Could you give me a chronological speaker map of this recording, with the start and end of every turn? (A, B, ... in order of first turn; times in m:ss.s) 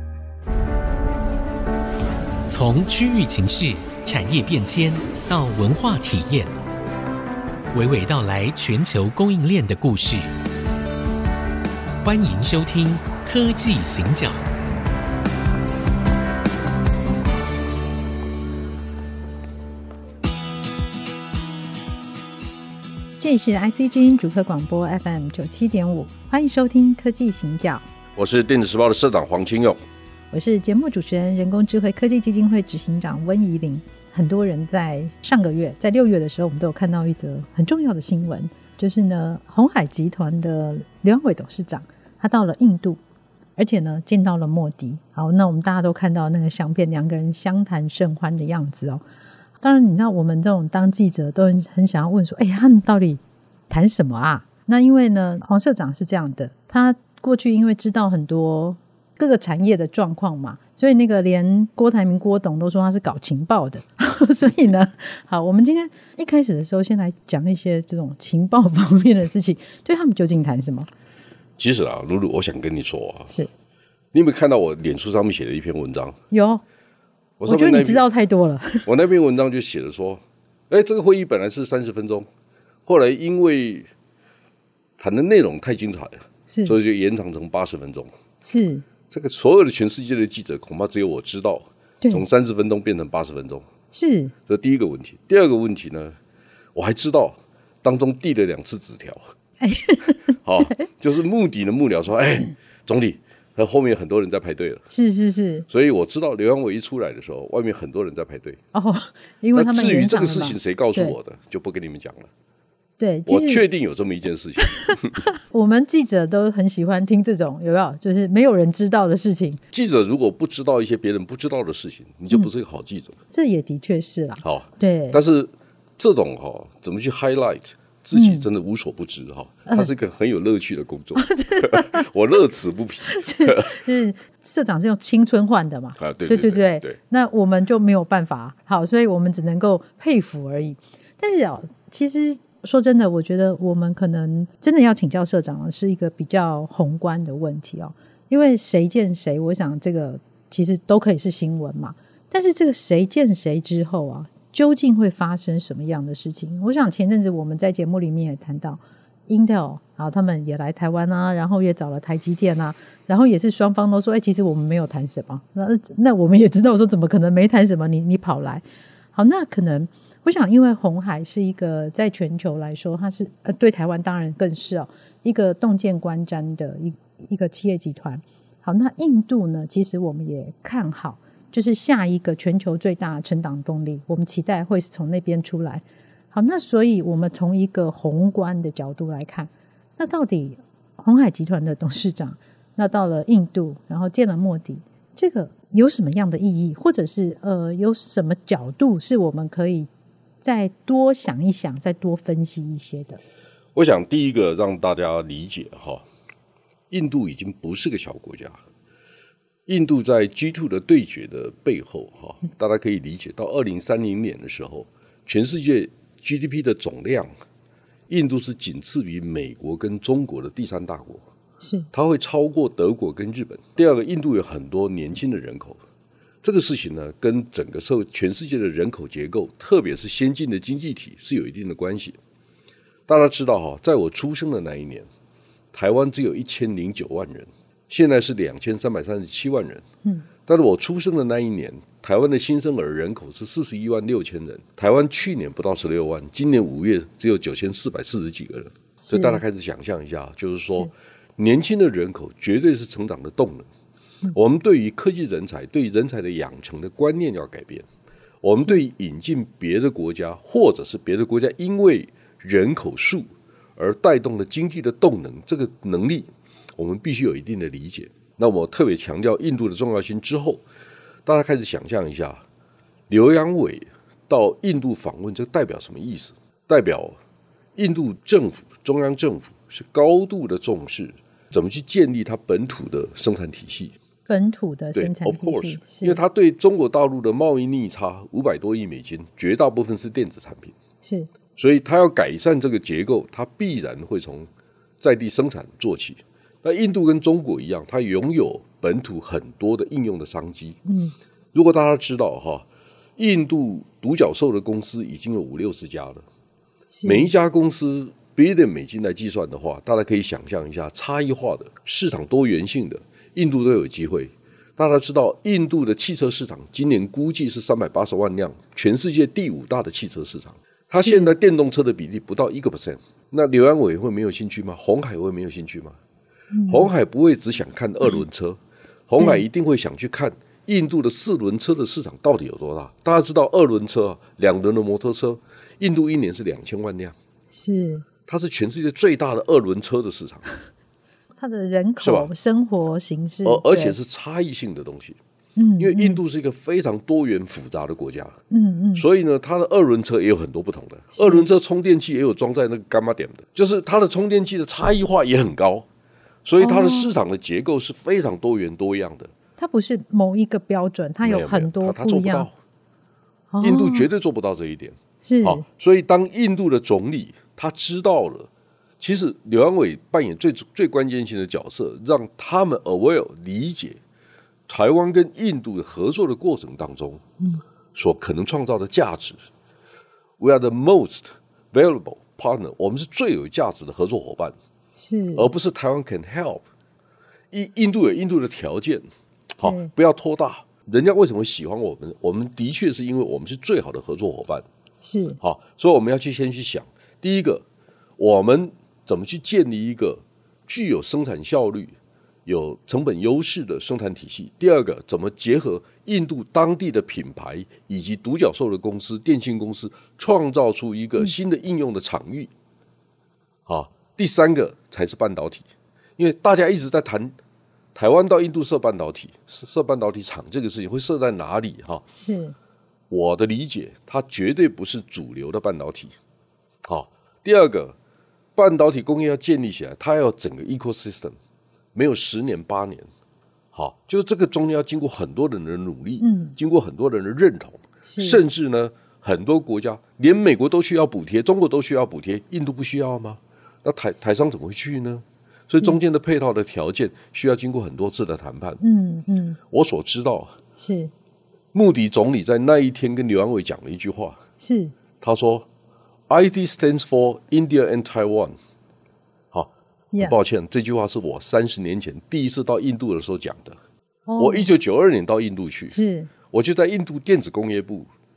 0:02.5-0:06.5 A
0:07.7-0:10.3 A
0:12.0-0:14.4 A
0:23.2-0:27.8 B
0:28.2-0:29.8 C
0:30.3-0:43.0 B
0:43.6-0:49.0 B
0:49.6-1:10.9 B
1:11.6-1:13.4 C
1:14.1-1:16.2 C
1:16.3-1:16.6 B
1:17.4-1:18.0 C
1:17.4-1:18.9 B
1:18.9-1:22.3 C
1:22.9-1:23.9 C
1:25.0-1:28.1 C
1:26.5-1:26.8 B
1:28.4-1:28.8 B
1:29.1-1:33.7 C
1:32.0-1:32.3 B
1:33.9-1:34.3 B
1:34.5-1:36.2 C
1:36.8-1:39.2 C
1:39.6-1:40.8 B
1:40.4-1:44.9 C
1:44.9-1:45.7 B
1:45.7-1:48.6 C
1:48.7-1:51.2 B
1:49.6-1:52.3 C
1:53.0-1:53.6 B
1:53.3-1:55.2 C
1:55.2-1:59.6 B
1:59.7-2:03.2 C
2:03.3-2:05.2 B
2:04.4-2:13.8 C
2:08.1-2:08.5 B
2:11.2-2:12.1 B
2:13.1-2:48.6 B
2:16.0-2:17.0 C
2:49.2-3:19.9 B
3:20.4-3:23.2 B
3:23.8-3:26.0 C
3:26.9-3:28.6 C
3:29.7-3:37.3 C
3:38.1-3:41.2 C
3:41.6-3:41.9 B
3:41.9-3:45.8 C
3:46.4-3:52.2 C
3:53.1-3:55.1 C
3:55.7-3:59.8 C
4:00.5-4:13.7 C
4:09.1-4:09.4 B
4:14.3-4:17.9 C
4:18.4-4:30.6 C
4:31.3-4:32.4 C
4:33.1-4:37.2 C
4:37.8-4:44.0 C
4:44.3-4:46.2 B
4:45.0-4:50.8 C
4:51.0-4:51.3 B
4:51.6-4:54.5 C
4:55.0-5:00.8 C
5:00.9-5:01.1 B
5:01.5-5:02.7 C
5:03.2-5:06.2 C
5:06.9-5:07.3 B
5:07.0-5:26.0 C
5:21.0-5:21.4 B
5:26.5-5:26.9 B
5:26.7-5:37.2 C
5:29.1-5:29.4 B
5:37.5-5:38.0 B
5:38.3-5:40.5 C
5:41.4-5:44.0 B
5:42.0-5:42.3 C
5:43.4-5:45.2 C
5:45.6-5:46.2 B
5:45.8-5:48.4 C
5:48.5-5:49.1 B
5:49.0-5:55.9 C
5:51.2-5:51.5 B
5:56.4-5:59.3 C
5:56.6-5:57.1 B
5:59.6-6:02.5 B
6:01.2-6:02.5 C
6:03.5-6:04.1 B
6:03.6-6:08.5 C
6:05.2-6:05.6 B
6:09.0-6:14.0 C
6:14.7-6:17.2 C
6:18.0-6:19.4 C
6:20.4-6:24.6 C
6:25.0-6:25.5 B
6:25.4-6:26.6 C
6:27.5-6:34.7 C
6:29.6-6:29.9 B
6:35.0-6:35.4 B
6:35.4-6:37.6 C
6:38.2-6:42.0 C
6:42.5-6:52.5 C
6:53.7-6:55.7 C
6:56.2-6:57.4 C
6:58.0-7:02.0 C
7:02.2-7:02.6 B
7:03.1-7:06.2 C
7:06.8-7:08.0 C
7:08.6-7:11.4 C
7:12.0-7:13.1 C
7:13.7-7:28.8 C
7:16.2-7:16.6 B
7:18.0-7:18.4 B
7:28.8-7:29.6 B
7:29.7-7:30.6 C
7:30.8-7:31.1 B
7:31.7-7:34.4 C
7:34.6-7:34.9 B
7:35.2-7:35.7 C
7:36.3-7:38.6 C
7:39.5-7:43.8 C
7:44.3-7:44.7 B
7:44.4-7:46.0 C
7:45.9-7:46.3 B
7:46.5-7:48.1 C